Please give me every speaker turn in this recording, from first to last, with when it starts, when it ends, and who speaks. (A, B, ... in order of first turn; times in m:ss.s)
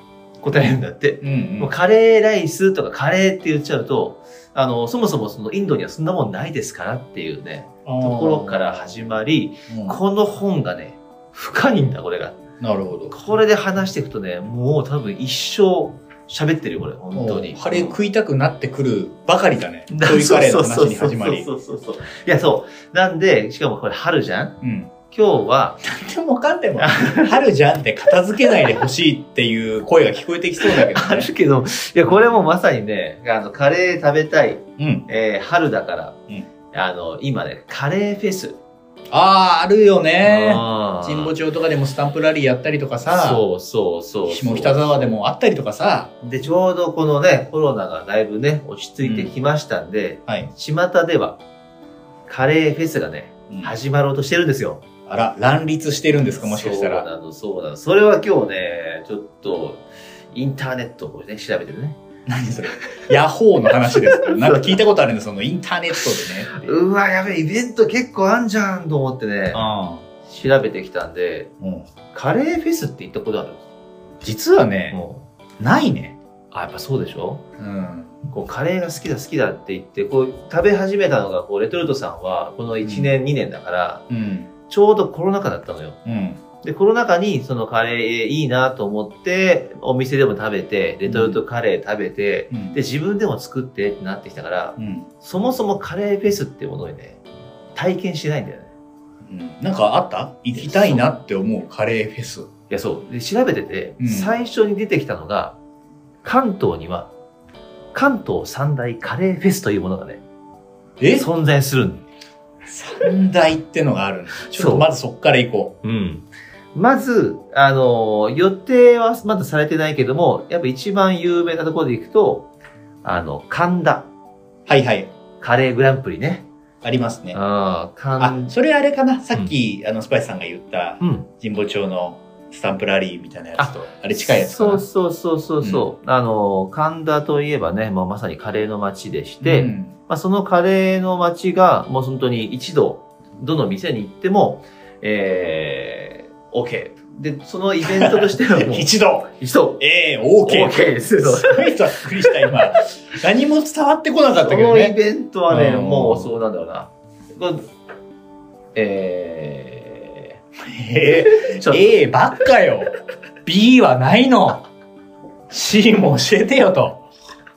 0:00.4-0:12.4 A
0:00.5-0:01.7 B
0:07.8-0:09.0 B
0:09.7-0:10.0 B
0:12.6-0:13.2 B
0:13.1-0:18.0 A
0:17.2-0:21.5 B
0:19.9-0:24.6 A
0:24.6-0:24.9 B
0:25.1-0:25.8 A
0:25.8-0:31.3 B
0:26.8-0:27.3 A
0:30.6-0:36.2 A
0:32.1-0:32.5 B
0:34.8-0:35.0 B
0:36.7-0:38.6 A
0:39.1-0:43.4 B
0:40.2-0:41.3 A
0:43.0-0:45.1 A
0:44.3-0:46.1 B
0:46.2-0:51.4 A
0:49.0-0:49.3 B
0:52.3-0:54.8 A
0:55.1-0:57.1 B
0:56.4-1:02.0 A
1:02.3-1:06.8 B
1:03.9-1:04.8 A
1:06.5-1:09.7 A
1:09.5-1:10.0 B
1:10.2-1:11.5 A
1:11.6-1:11.9 B
1:12.1-1:13.6 A
1:14.2-1:15.0 B
1:14.9-1:15.3 A
1:15.6-1:16.2 B
1:16.5-1:17.4 A
1:17.6-1:18.2 B
1:18.3-1:24.0 A
1:22.8-1:23.2 B
1:24.1-1:24.5 B
1:24.7-1:26.0 A
1:26.0-1:26.4 B
1:26.6-1:37.2 A
1:31.0-1:31.4 B
1:32.5-1:32.8 B
1:34.8-1:35.1 B
1:37.8-1:38.7 A
1:39.3-1:42.5 B
1:40.5-1:41.1 A
1:42.7-1:45.6 A
1:44.0-1:44.4 B
1:46.2-1:47.1 A
1:47.9-1:50.2 A
1:51.0-1:51.3 B
1:51.1-1:52.0 A
1:52.7-1:55.7 B
1:54.5-1:54.9 A
1:55.8-2:02.5 A
2:03.0-2:04.1 A
2:04.7-2:05.1 B
2:05.4-2:06.4 A
2:06.8-2:07.4 B
2:07.3-2:08.5 A
2:08.2-2:14.9 B
2:11.0-2:11.3 A
2:13.6-2:29.8 A
2:15.6-2:15.9 B
2:19.4-2:20.0 B
2:27.8-2:35.0 B
2:30.4-2:32.5 A
2:34.4-2:37.6 A
2:35.5-2:36.3 B
2:38.8-2:40.4 A
2:40.7-2:42.9 B
2:41.3-2:41.9 A
2:43.4-2:44.6 B
2:45.5-2:47.1 B